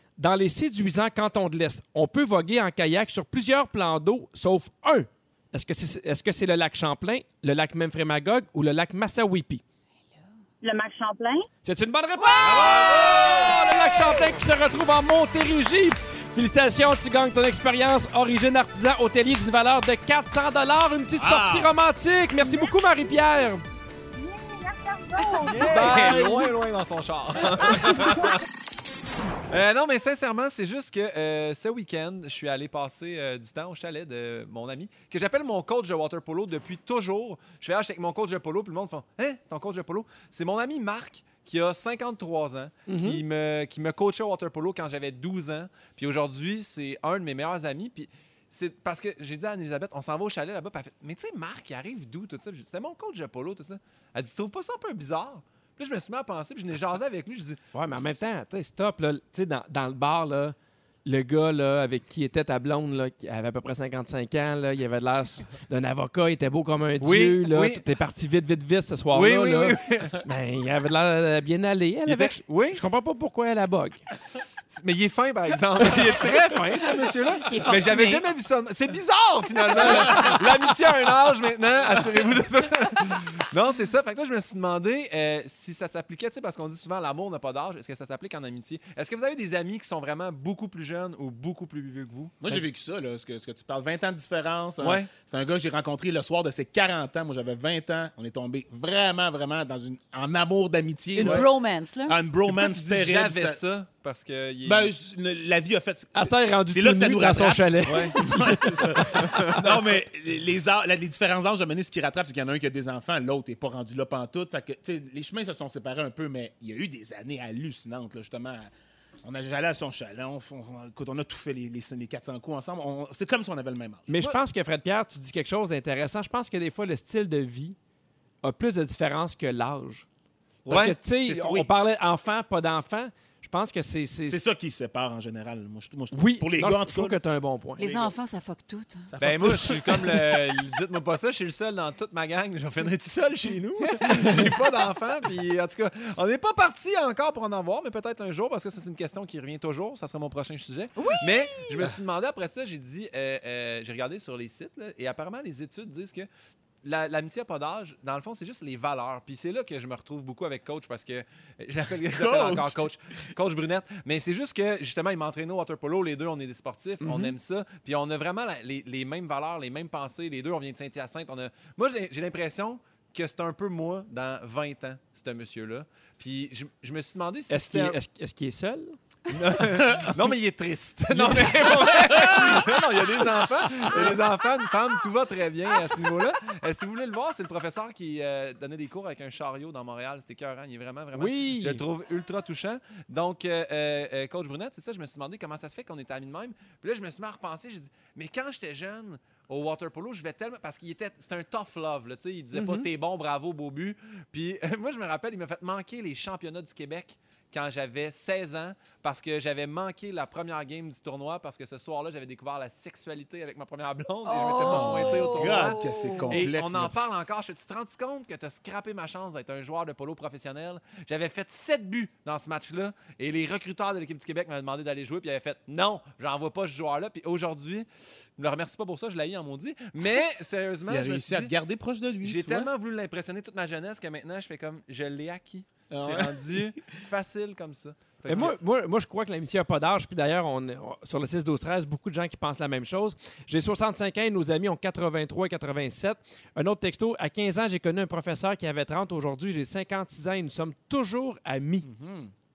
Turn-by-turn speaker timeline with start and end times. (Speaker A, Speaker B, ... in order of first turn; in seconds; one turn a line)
Speaker A: 0.2-9.6
Speaker B: 10.6-11.4
Speaker A: 11.6-23.6
Speaker C: 12.2-14.2
Speaker D: 12.5-13.2
Speaker E: 12.7-13.1
Speaker E: 21.1-21.7
Speaker B: 24.1-25.7
Speaker D: 25.4-28.4
Speaker A: 25.6-26.5
Speaker D: 29.5-58.2
Speaker A: 42.9-43.2
Speaker A: 57.7-60.5
Speaker A: 61.0-74.0
Speaker D: 67.0-67.8
Speaker D: 69.1-70.2
Speaker D: 72.0-72.8
Speaker D: 74.7-92.5
Speaker A: 76.2-77.1
Speaker C: 77.4-78.2
Speaker E: 92.4-101.5
Speaker D: 94.8-95.1
Speaker C: 101.1-102.2
Speaker D: 101.2-101.5
Speaker E: 102.0-103.6
Speaker D: 102.5-104.9
Speaker E: 104.6-118.7
Speaker A: 106.1-109.5
Speaker D: 107.9-108.1
Speaker D: 109.1-109.6
Speaker E: 119.2-124.3
Speaker A: 124.1-127.8
Speaker A: 128.4-130.1
Speaker E: 130.6-131.7
Speaker A: 130.7-134.4
Speaker E: 134.3-137.2
Speaker A: 136.1-137.8
Speaker C: 137.8-139.1
Speaker E: 137.8-138.1
Speaker E: 139.1-140.6
Speaker D: 139.2-156.3
Speaker C: 151.0-151.8
Speaker D: 156.8-178.0
Speaker E: 162.1-162.8
Speaker A: 167.0-167.3
Speaker A: 177.5-179.0
Speaker D: 179.3-231.5
Speaker E: 181.3-182.8
Speaker A: 191.1-191.8
Speaker A: 202.5-202.9
Speaker C: 214.2-216.5
Speaker E: 214.6-217.0
Speaker E: 230.9-232.7
Speaker D: 232.2-238.5
Speaker E: 235.9-236.8
Speaker A: 238.3-251.9
Speaker E: 251.8-252.3